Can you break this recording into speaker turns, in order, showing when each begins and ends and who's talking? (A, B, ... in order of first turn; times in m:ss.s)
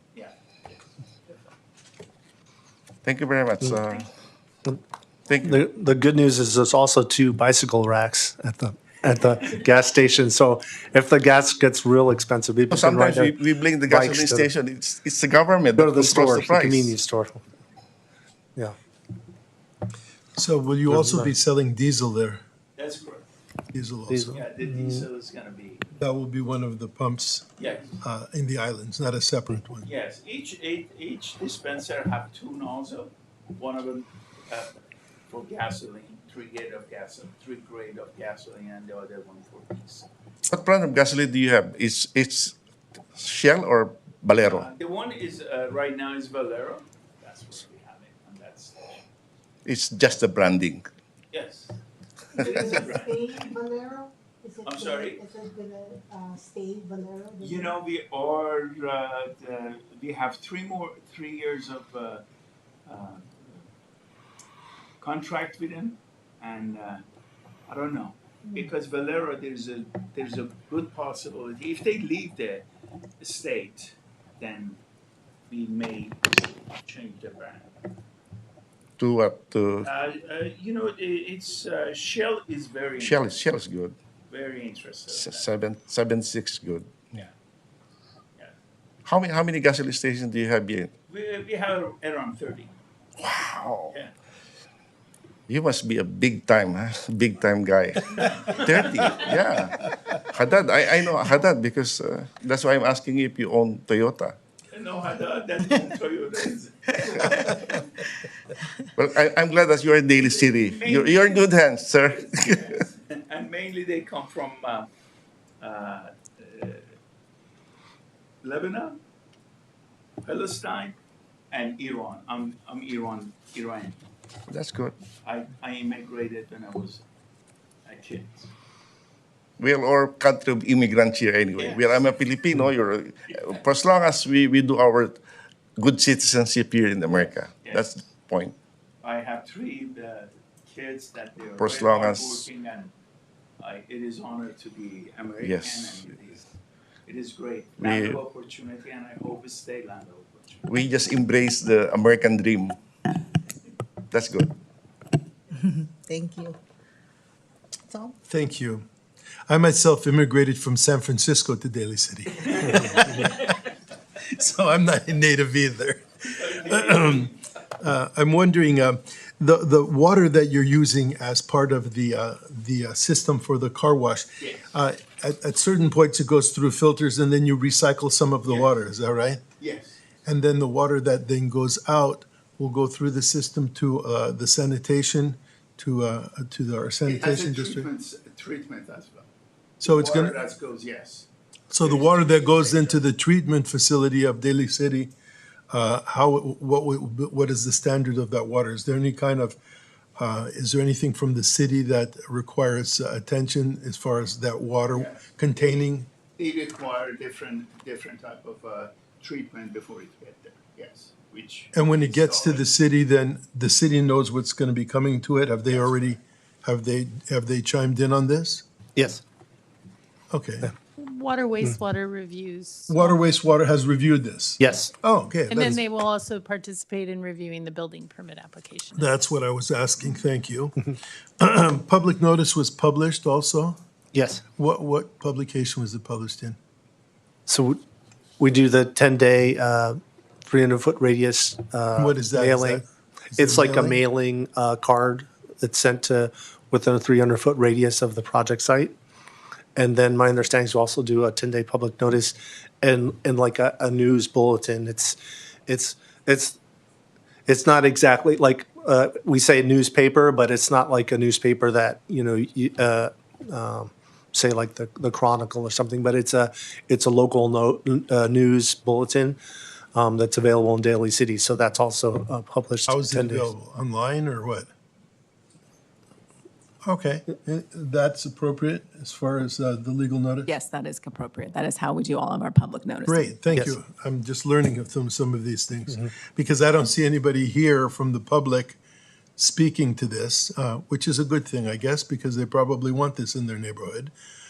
0:03.0-0:04.1 A
0:05.3-0:05.6 A
0:05.4-0:14.5 B
0:12.7-0:16.9 A
0:15.8-0:17.4 B
0:20.3-0:22.4 C
0:20.9-0:21.3 B
0:22.8-0:23.3 D
0:23.7-0:24.4 C
0:24.1-0:25.1 B
0:24.3-0:25.8 D
0:26.0-0:27.5 C
0:27.6-0:28.0 D
0:28.0-0:29.9 C
0:29.8-0:34.7 D
0:35.3-0:40.1 D
0:40.5-0:42.6 A
0:43.2-0:44.7 A
0:44.4-0:49.0 D
0:49.6-0:50.9 A
0:51.3-0:51.8 D
0:52.3-0:53.6 D
0:52.3-0:57.8 E
0:54.6-0:55.2 D
0:57.4-1:02.2 D
1:02.8-1:03.6 D
1:05.0-1:07.0 D
1:07.7-1:12.7 D
1:13.2-1:14.8 D
1:15.5-1:17.7 D
1:19.0-1:19.9 A
1:19.8-1:23.3 D
1:23.0-1:24.0 A
1:24.3-1:25.5 D
1:25.1-1:27.3 A
1:29.0-1:30.9 A
1:31.1-1:32.7 D
1:33.2-1:34.0 A
1:35.5-1:44.4 A
1:38.1-1:39.9 D
1:44.7-1:47.9 D
1:49.0-1:52.6 A
1:50.2-1:54.9 D
1:55.6-1:56.9 D
1:58.4-1:59.0 D
2:00.2-2:01.0 D
2:01.5-2:04.0 D
2:04.5-2:04.9 A
2:05.2-2:07.0 D
2:07.8-2:08.5 D
2:09.6-2:15.2 A
2:11.6-2:12.1 D
2:15.8-2:18.6 A
2:17.1-2:18.0 D
2:19.0-2:22.9 D
2:21.6-2:22.5 A
2:23.6-2:26.4 D
2:25.4-2:26.1 A
2:27.1-2:30.8 D
2:27.8-2:28.2 A
2:30.7-2:32.8 A
2:34.1-2:34.5 A
2:35.6-2:36.6 E
2:38.3-2:38.8 C
2:39.5-2:43.5 C
2:42.6-2:43.3 D
2:44.3-2:59.4 C
2:46.3-2:47.4 D
2:54.4-2:54.7 D
2:58.4-2:58.8 D
2:59.6-3:00.0 D
3:00.2-3:07.9 C
3:07.0-3:09.3 D
3:09.8-3:11.3 D
3:09.8-3:10.4 C
3:11.7-3:15.1 C
3:11.8-3:13.0 D
3:15.7-3:19.6 C
3:20.2-3:26.1 C
3:24.9-3:25.2 D
3:26.4-3:32.7 D
3:31.7-3:38.6 C
3:35.7-3:36.2 D
3:39.0-3:39.2 B
3:40.3-3:40.7 C
3:41.0-3:43.2 F
3:42.9-3:45.8 C
3:44.6-3:44.9 B
3:45.5-3:49.1 F
3:48.9-3:50.8 C
3:51.4-3:53.8 C
3:54.1-3:54.4 B
3:54.6-3:56.6 C
3:57.5-3:57.8 B
3:58.4-4:02.8 B
4:02.0-4:04.0 C
4:03.4-4:08.9 B
4:09.8-4:15.2 B
4:15.7-4:16.6 B
4:17.5-4:29.4 B
4:29.9-4:33.5 B
4:32.9-4:34.7 C
4:36.8-4:40.5 C
4:40.5-4:43.4 G
4:43.1-4:48.8 C
4:43.5-4:43.8 B
4:49.4-4:54.1 C